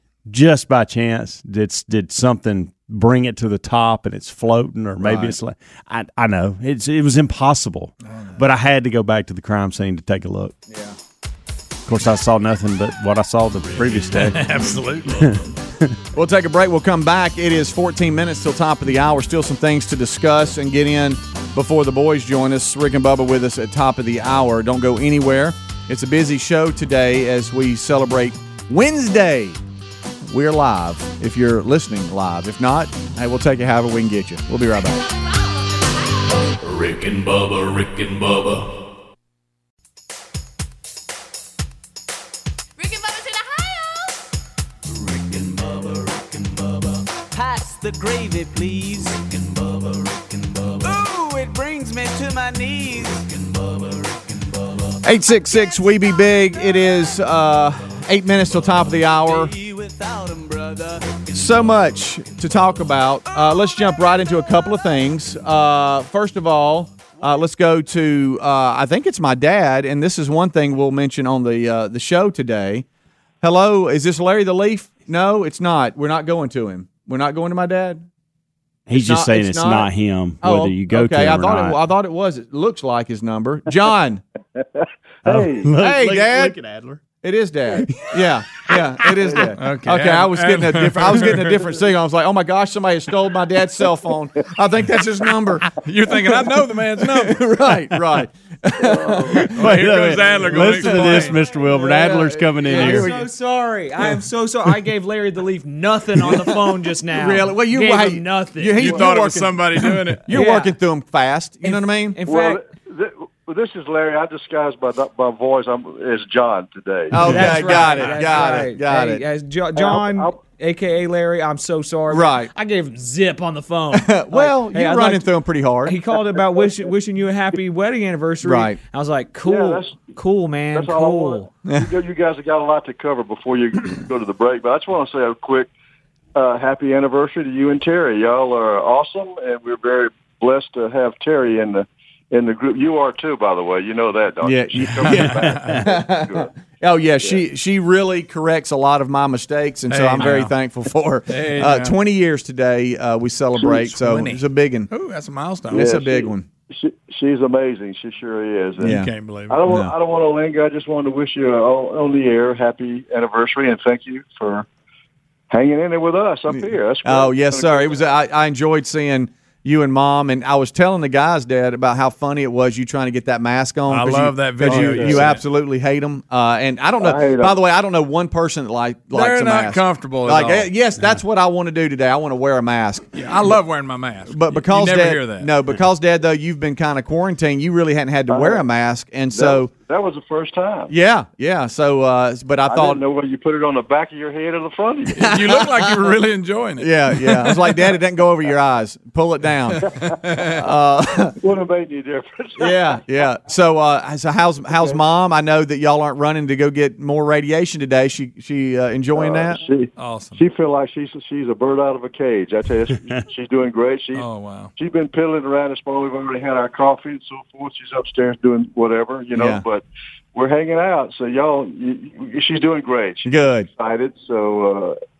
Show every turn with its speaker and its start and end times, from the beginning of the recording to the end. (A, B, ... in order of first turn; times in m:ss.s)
0:00.3-0:10.5 A
0:05.0-0:05.4 B
0:10.7-0:10.9 B
0:11.8-0:14.5 A
0:14.1-0:15.2 C
0:15.1-0:15.9 A
0:16.1-0:29.6 B
0:30.2-0:35.0 B
0:35.0-0:36.6 D
0:36.6-0:38.7 E
0:42.8-0:44.2 D
0:45.0-0:46.6 F
0:47.3-0:54.2 F
0:55.0-0:59.5 B
0:59.1-1:01.2 F
1:01.3-1:12.8 B
1:13.4-1:18.0 B
1:18.9-1:21.8 A
1:18.9-1:19.9 B
1:20.4-1:24.2 B
1:24.6-1:25.7 G
1:25.2-1:27.0 A
1:25.8-1:26.6 B
1:27.2-1:35.7 B
1:27.8-1:28.2 A
1:29.6-1:31.6 C
1:35.8-1:37.4 C
1:37.0-1:43.3 B
1:38.8-1:39.5 G
1:39.5-1:43.1 A
1:39.5-1:41.4 C
1:41.7-1:48.8 H
1:46.2-1:52.2 B
1:48.8-1:50.3 C
1:50.3-1:50.8 H
1:51.6-1:52.6 H
1:52.2-1:58.0 G
1:57.1-1:59.2 B
1:57.2-2:05.3 H
1:59.7-2:00.4 G
2:02.1-2:02.5 B
2:03.9-2:06.0 B
2:05.8-2:11.5 H
2:06.4-2:06.8 G
2:08.4-2:08.8 B
2:09.4-2:10.2 G
2:10.7-2:15.7 G
2:11.6-2:11.9 B
2:16.3-2:26.5 G
2:24.4-2:34.9 B
2:25.3-2:25.8 C
2:29.9-2:30.5 C
2:31.3-2:31.9 C
2:33.6-2:33.8 G
2:33.8-2:36.0 C
2:35.7-2:36.4 B
2:35.7-2:39.0 G
2:38.8-2:39.1 B
2:38.8-2:39.6 C
2:39.5-2:44.7 G
2:39.6-2:39.9 B
2:45.5-2:48.1 G
2:46.5-3:03.1 B
2:53.9-2:55.4 C
2:57.0-2:57.6 G
2:59.1-3:00.7 C
3:03.1-3:05.5 C
3:04.3-3:09.7 B
3:08.3-3:08.7 G
3:09.3-3:10.9 G
3:10.9-3:13.0 B
3:12.6-3:15.3 G
3:15.2-3:17.7 C
3:15.2-3:15.9 B
3:16.8-3:19.9 B
3:19.8-3:20.6 C
3:19.9-3:20.2 G
3:20.6-3:21.3 B
3:21.4-3:23.0 G
3:22.6-3:29.6 B
3:24.7-3:25.0 G
3:29.1-3:45.0 G
3:30.0-3:30.4 C
3:34.1-3:34.7 C
3:39.3-3:39.6 B
3:43.2-3:43.7 B